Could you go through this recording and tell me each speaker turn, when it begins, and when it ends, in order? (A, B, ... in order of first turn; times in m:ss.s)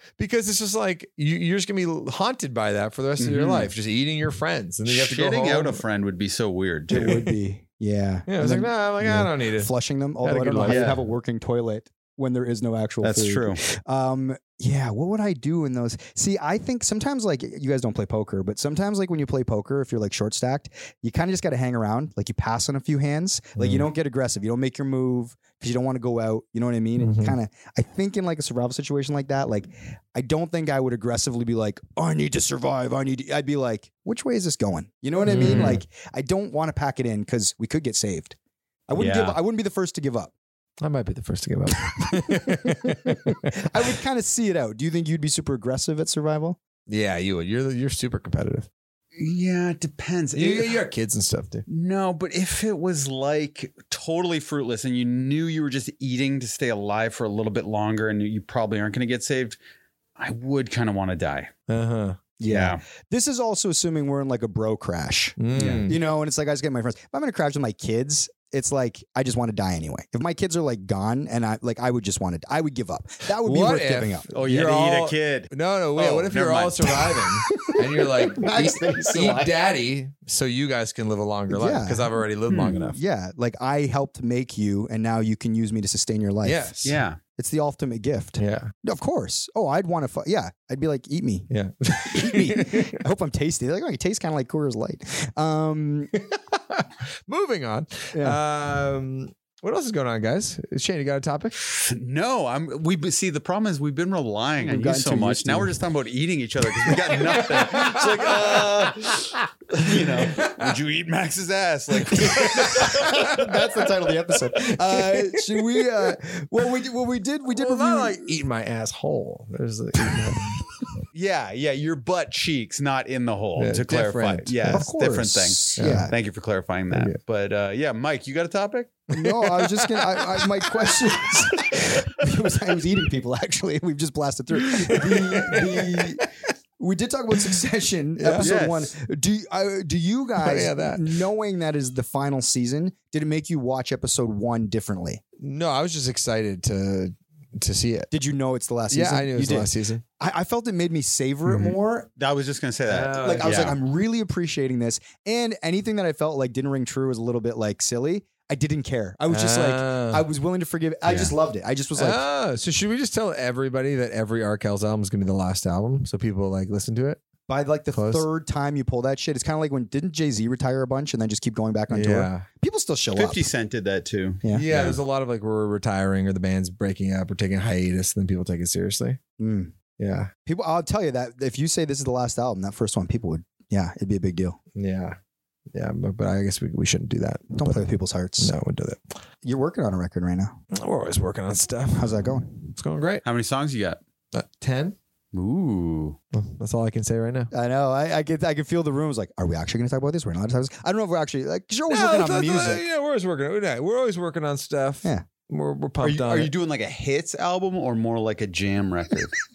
0:00.2-0:05.8 A
0:03.2-0:03.7 B
0:04.9-0:07.2 B
0:06.9-0:38.4 C
0:06.9-0:07.3 A
0:08.3-0:10.9 A
0:10.6-0:11.0 B
0:13.0-0:13.6 B
0:23.6-0:23.9 A
0:27.0-0:27.4 A
0:35.2-0:35.8 A
0:35.4-0:35.8 B
0:38.9-0:40.3 C
0:39.0-0:39.4 B
0:40.8-0:43.6 A
0:42.0-0:46.6 C
0:46.9-0:48.7 A
0:49.2-0:50.8 B
0:50.4-0:51.6 A
0:51.7-0:59.6 B
1:00.2-1:01.5 B
1:01.7-1:02.2 A
1:02.4-1:14.3 C
1:02.5-1:02.8 B
1:05.4-1:06.0 A
1:05.6-1:05.9 B
1:13.4-1:23.0 A
1:14.3-1:17.0 B
1:17.5-1:19.6 C
1:21.5-1:22.1 C
1:22.5-1:22.8 B
1:22.9-1:26.8 C
1:26.4-1:27.0 A
1:26.8-1:27.2 B
1:27.4-1:31.5 C
1:28.4-1:28.7 A
1:31.5-1:33.0 A
1:32.0-1:36.2 C
1:36.3-1:41.6 A
1:38.1-1:38.4 C
1:41.8-1:53.1 B
1:44.6-1:45.8 C
1:47.2-1:48.7 A
1:50.0-1:50.7 A
1:52.1-1:53.2 A
1:52.5-1:58.3 C
1:54.6-1:56.1 A
1:57.5-2:00.6 A
2:01.1-2:09.0 B
2:03.6-2:04.9 A
2:04.7-2:06.1 C
2:05.8-2:06.1 A
2:06.9-2:07.2 A
2:09.1-2:16.3 C
2:09.1-2:11.8 A
2:14.6-2:16.3 A
2:16.8-2:25.2 C
2:18.2-2:18.5 A
2:18.4-2:18.9 B
2:20.4-2:21.2 A
2:25.4-2:28.1 A
2:28.1-2:32.1 C
2:28.9-2:30.0 A
2:31.5-2:33.8 B
2:32.9-2:33.8 A
2:33.2-2:42.2 C
2:39.3-2:40.2 A
2:41.1-2:41.3 B
2:42.0-2:47.2 A
2:47.5-2:53.5 C
2:47.9-2:48.3 A
2:51.9-2:52.5 A
2:53.2-2:55.0 B
2:54.5-2:59.2 A
2:59.4-2:59.7 C
3:00.0-3:00.3 A
3:00.5-3:04.6 C
3:04.8-3:05.2 A
3:05.7-3:09.2 A
3:07.6-3:08.5 C
3:09.4-3:10.6 C
3:10.7-3:13.2 A
3:12.0-3:12.5 C
3:13.2-3:14.0 B
3:14.3-3:15.0 A
3:15.3-3:16.2 B
3:16.3-3:17.5 A
3:17.5-3:22.8 C
3:21.9-3:26.5 A
3:26.0-3:29.4 B